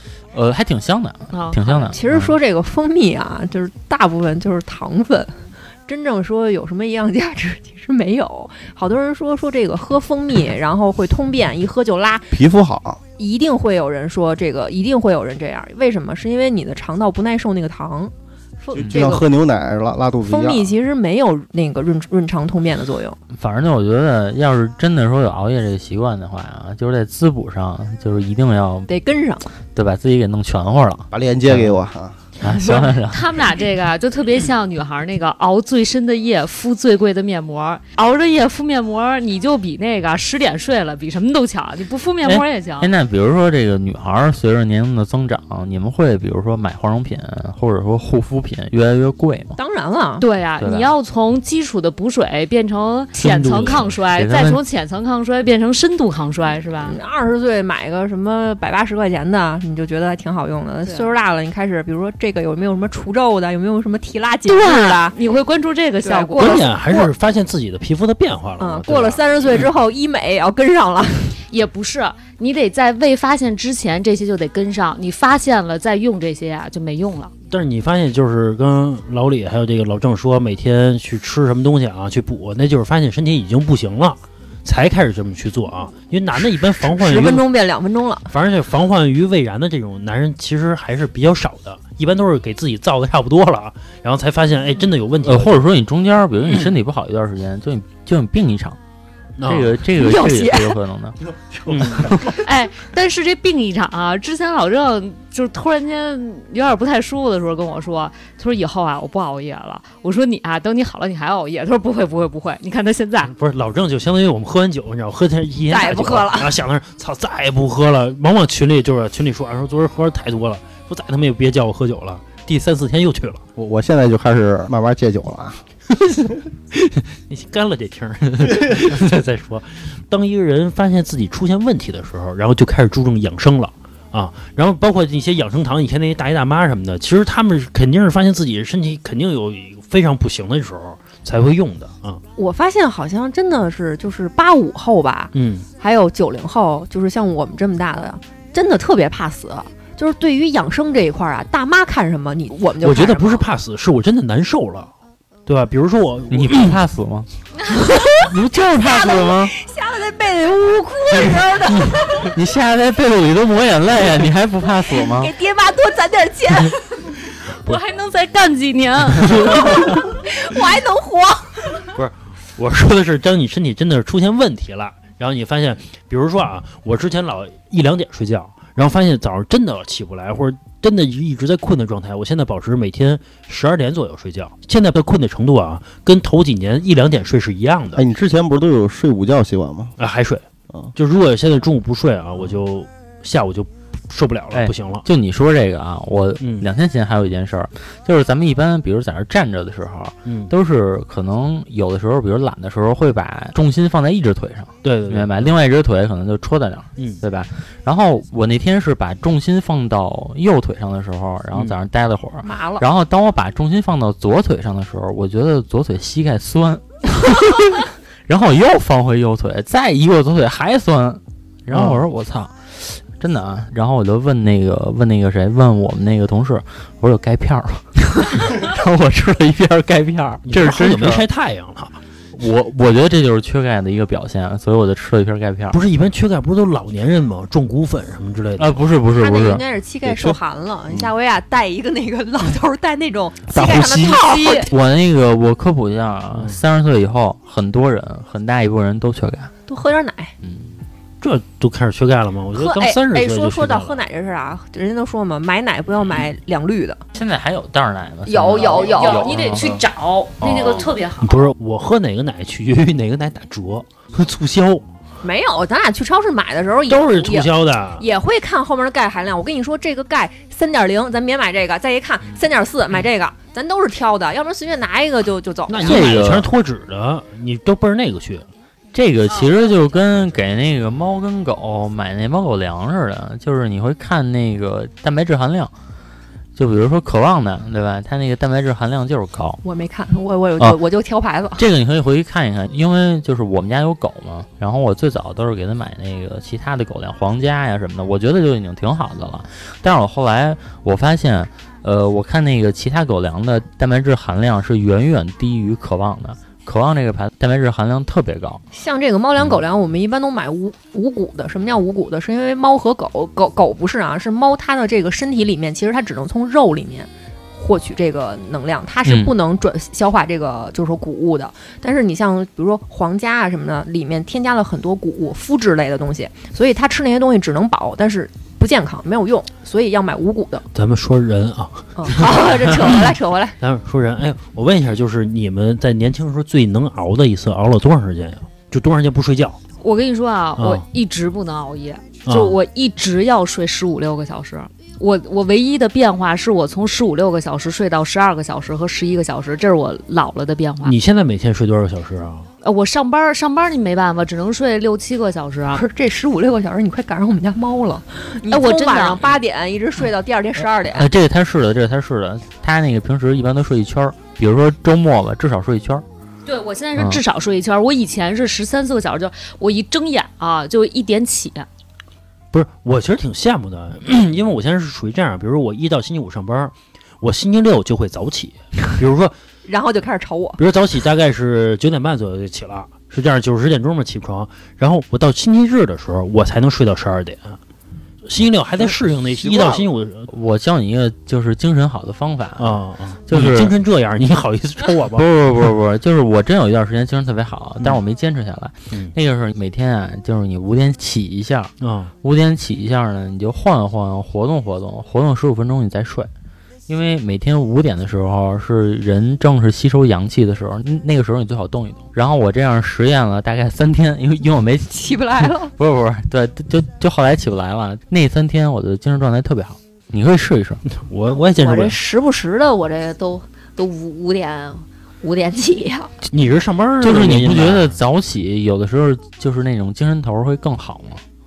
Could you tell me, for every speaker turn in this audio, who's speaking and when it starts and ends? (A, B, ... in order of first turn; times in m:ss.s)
0:00.3-0:02.4 A
0:01.3-0:01.9 B
0:01.9-0:12.3 C
0:12.3-0:13.0 D
0:13.2-0:19.3 C
0:18.7-0:20.7 D
0:18.8-0:19.1 A
0:20.2-0:23.2 C
0:23.3-0:28.9 A
0:28.9-0:29.5 C
0:29.7-0:31.8 A
0:31.1-0:32.2 D
0:32.4-0:33.2 A
0:32.7-0:42.9 B
0:42.2-0:49.6 A
0:49.6-0:50.2 C
0:50.2-0:57.0 B
0:50.6-0:50.9 A
0:53.2-0:53.9 E
0:54.1-0:54.6 A
0:56.8-1:05.2 C
1:00.8-1:01.1 B
1:04.5-1:06.6 B
1:06.0-1:07.1 C
1:06.4-1:09.7 E
1:08.6-1:11.4 C
1:11.5-1:17.3 B
1:17.5-1:27.4 E
1:26.8-1:28.3 C
1:28.3-1:35.6 E
1:35.2-1:38.8 A
1:39.4-1:39.8 E
1:39.4-1:41.2 A
1:40.0-1:40.8 C
1:41.7-1:42.1 E
1:41.7-1:42.4 A
1:42.3-1:53.3 B
1:53.3-2:03.4 E
1:55.7-1:56.5 C
2:03.6-2:05.6 D
2:06.7-2:22.2 E
2:22.4-2:33.5 C
2:25.3-2:25.7 E
2:32.8-2:34.9 E
2:35.4-2:36.8 E
2:36.3-2:37.3 A
2:37.8-2:38.2 C
2:38.2-2:39.5 A
2:38.8-2:42.3 C
2:41.7-2:45.3 A
2:44.9-2:47.1 C
2:47.6-2:49.6 B
2:49.4-2:51.9 C
2:51.9-3:08.0 E
3:07.9-3:09.9 D
3:10.0-3:10.4 E
3:11.0-3:15.0 E
3:14.5-3:51.2 A
3:16.4-3:16.7 E
3:20.2-3:20.5 E
3:24.8-3:25.5 E
3:27.0-3:27.2 E
3:32.4-3:32.8 C
3:41.7-3:42.0 E
3:50.4-3:52.0 E
3:52.3-3:55.8 A
3:55.7-3:58.8 E
3:58.6-3:59.6 A
3:59.2-4:04.7 C
4:00.0-4:00.4 D
4:03.5-4:09.5 A
4:06.3-4:06.6 E
4:09.7-4:10.3 C
4:10.4-4:10.7 A
4:11.2-4:14.0 E
4:12.5-4:17.0 C
4:17.1-4:19.8 A
4:18.2-4:19.3 F
4:18.7-4:21.5 B
4:20.4-4:20.9 A
4:21.2-4:24.8 E
4:25.2-4:36.1 C
4:26.9-4:28.0 E
4:35.7-4:38.5 E
4:35.8-4:36.5 A
4:38.9-4:45.7 A
4:46.6-4:49.6 A
4:49.6-4:51.6 C
4:51.6-5:08.6 A
5:08.7-5:30.6 C
5:19.0-5:19.3 A
5:30.7-5:39.6 E
5:32.0-5:33.6 C
5:39.8-5:50.9 B
5:40.6-5:40.8 E
5:42.2-5:42.6 E
5:50.8-5:52.5 E
5:52.6-5:55.8 B
5:55.7-6:01.1 C
5:58.5-5:59.3 B
6:00.9-6:06.0 A
6:06.4-6:11.7 B
6:12.5-6:19.3 E
6:19.6-6:20.6 C
6:20.6-6:27.6 E
6:28.2-6:30.3 E
6:30.3-6:33.7 A
6:32.6-6:35.3 E
6:35.1-6:46.3 A
6:41.8-6:42.1 E
6:46.9-7:00.8 A
6:54.9-6:55.7 C
7:00.9-7:02.0 E
7:01.3-7:06.1 F
7:06.3-7:08.0 E
7:07.0-7:11.2 A